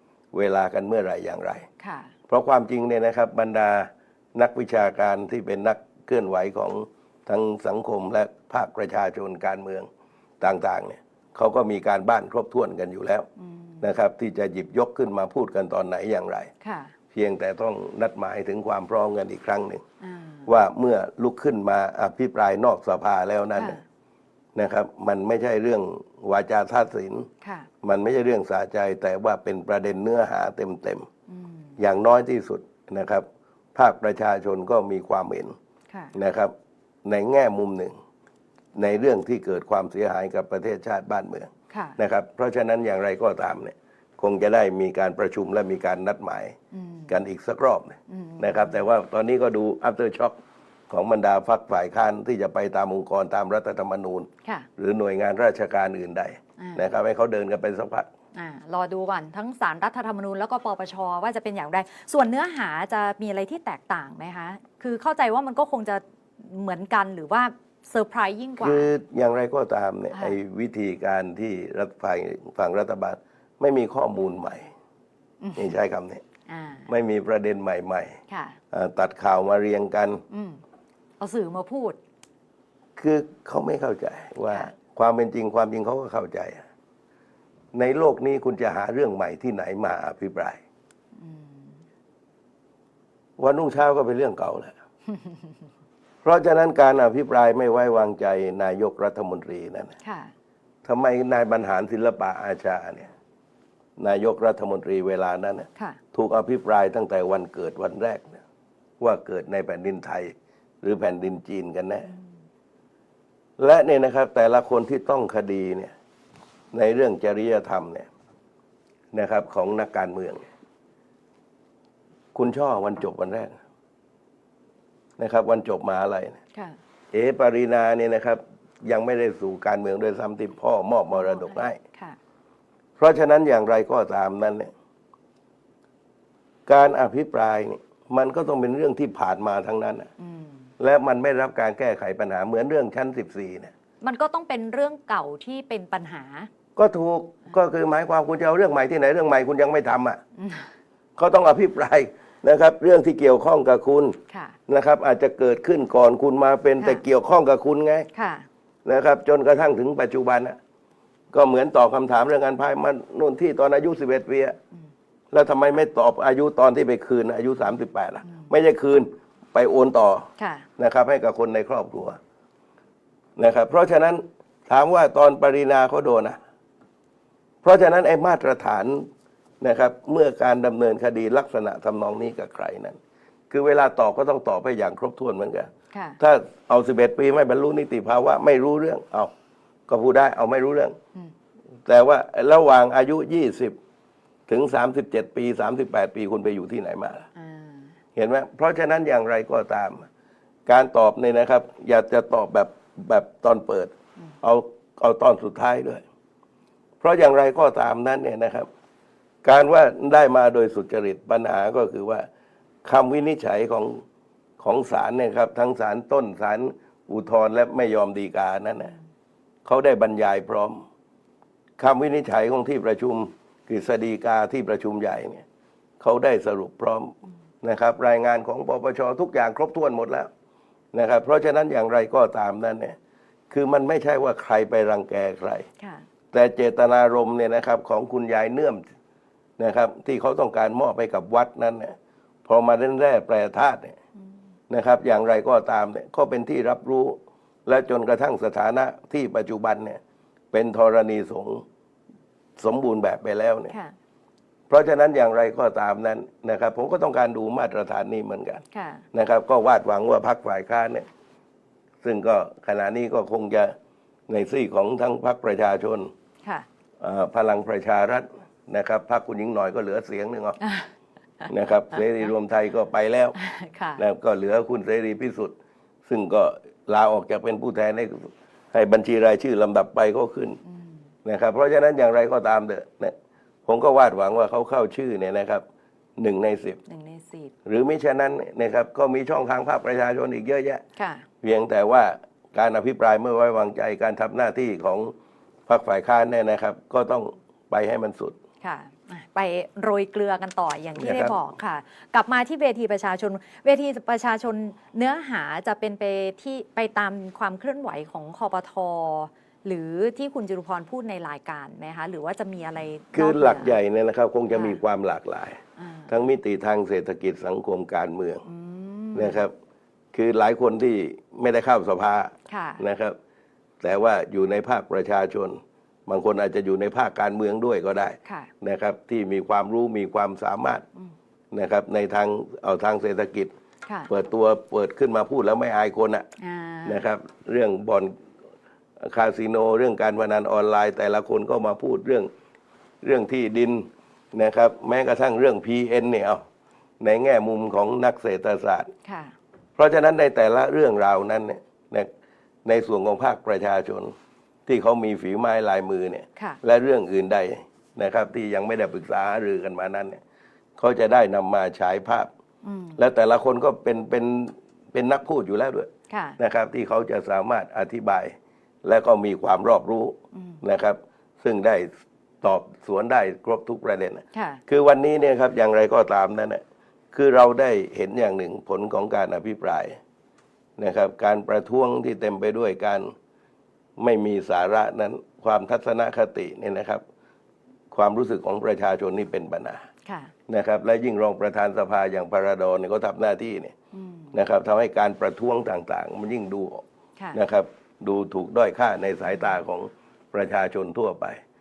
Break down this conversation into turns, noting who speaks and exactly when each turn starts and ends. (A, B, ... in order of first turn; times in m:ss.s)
0:00.3-0:01.6 A
0:01.8-0:02.1 B
0:02.3-0:09.9 A
0:10.4-0:13.3 A
0:13.4-0:13.8 B
0:13.8-0:16.5 A
0:16.6-0:16.9 B
0:17.1-0:19.8 A
0:20.0-0:20.5 B
0:20.4-0:23.8 A
0:23.6-0:23.8 B
0:24.5-0:27.3 A
0:27.4-0:27.7 B
0:27.8-0:31.1 A
0:31.3-0:31.8 B
0:31.8-0:35.5 A
0:35.9-0:36.1 B
0:36.1-0:36.5 A
0:37.0-0:37.9 A
0:38.7-0:46.6 A
0:41.7-0:42.0 B
0:46.7-0:47.1 B
0:47.1-0:50.4 A
0:48.1-0:48.7 B
0:50.9-0:58.1 A
0:54.4-0:54.7 B
0:56.6-0:56.9 B
0:58.3-1:08.9 B
1:08.6-1:14.7 A
1:10.1-1:10.4 B
1:15.4-1:15.8 B
1:15.6-1:16.2 A
1:16.5-1:16.9 B
1:16.9-1:18.2 A
1:18.3-1:18.6 B
1:18.7-1:20.2 A
1:20.3-1:20.6 B
1:21.2-1:22.0 B
1:23.0-1:26.6 A
1:27.7-1:30.6 A
1:31.1-1:31.8 B
1:33.4-1:34.7 A
1:36.2-1:39.9 A
1:40.0-1:40.3 B
1:40.8-1:43.1 A
1:44.0-1:48.4 A
1:49.0-1:52.1 A
1:53.6-1:55.9 A
1:56.7-1:58.1 A
1:59.1-2:00.4 A
2:02.3-2:03.6 A
2:05.2-2:06.4 A
2:07.1-2:11.8 A
2:11.1-2:12.2 B
2:13.0-2:14.7 A
2:16.7-2:20.1 A
2:20.2-2:20.7 B
2:20.8-2:23.7 A
2:24.0-2:26.5 B
2:26.8-2:30.2 A
2:30.4-2:30.7 B
2:31.2-2:38.1 A
2:34.3-2:34.6 B
2:38.1-2:38.5 B
2:38.8-2:40.6 A
2:41.3-2:44.6 A
2:45.3-2:52.2 A
2:50.4-2:50.7 B
2:53.4-2:56.4 A
2:57.6-2:59.1 A
2:59.6-3:03.0 A
3:03.5-3:09.3 A
3:05.9-3:06.2 B
3:09.9-3:11.0 A
3:11.8-3:13.8 A
3:14.5-3:17.3 A
3:17.4-3:17.9 B
3:18.2-3:20.1 A
3:20.7-3:26.0 A
3:27.0-3:28.7 A
3:29.4-3:32.2 A
3:32.8-3:34.0 A
3:34.6-3:39.0 A
3:39.6-3:40.8 A
3:41.8-3:45.4 A
3:46.0-3:50.3 A
3:50.9-3:53.0 A
3:53.5-3:55.6 A
3:55.8-3:56.0 B
3:56.3-3:58.8 A
3:59.6-4:04.0 A
4:04.7-4:10.0 A
4:10.5-4:11.6 A
4:12.6-4:13.7 A
4:13.7-4:13.9 B
4:14.7-4:18.6 A
4:18.7-4:19.0 B
4:19.1-4:21.1 A
4:22.0-4:23.7 A
4:24.3-4:26.1 A
4:27.0-4:30.6 A
4:30.6-4:30.9 B
4:31.5-4:33.4 A
4:33.4-4:34.0 B
4:34.0-4:35.5 A
4:36.0-4:40.6 A
4:40.6-4:41.0 B
4:41.2-4:43.1 A
4:43.6-4:45.6 A
4:46.2-4:46.8 A
4:46.9-4:47.5 B
4:47.6-4:50.8 A
4:51.0-4:51.2 B
4:51.4-4:55.1 A
4:55.7-4:58.4 A
4:58.6-5:13.8 B
5:01.0-5:01.4 A
5:13.1-5:18.4 A
5:14.5-5:14.8 B
5:15.8-5:16.1 B
5:18.4-5:19.4 B
5:19.1-5:19.5 A
5:20.1-5:23.2 A
5:22.5-5:22.8 B
5:23.8-5:30.8 A
5:28.2-5:28.5 B
5:31.5-5:33.5 A
5:33.8-5:34.1 B
5:34.1-5:36.3 A
5:36.4-5:37.0 B
5:36.8-5:38.1 A
5:39.0-5:42.3 A
5:43.0-5:46.4 A
5:47.0-5:48.9 A
5:49.0-5:49.3 B
5:49.8-5:52.1 A
5:52.6-5:54.1 A
5:54.7-6:00.2 A
6:00.8-6:02.3 A
6:02.6-6:03.0 B
6:03.0-6:11.9 A
6:06.1-6:06.4 B
6:10.3-6:10.6 B
6:12.4-6:16.6 A
6:14.3-6:14.6 B
6:17.1-6:20.0 A
6:20.8-6:23.1 A
6:24.0-6:27.0 A
6:27.9-6:29.8 A
6:30.0-6:30.3 B
6:30.5-6:33.7 A
6:33.9-6:34.3 B
6:34.3-6:41.4 A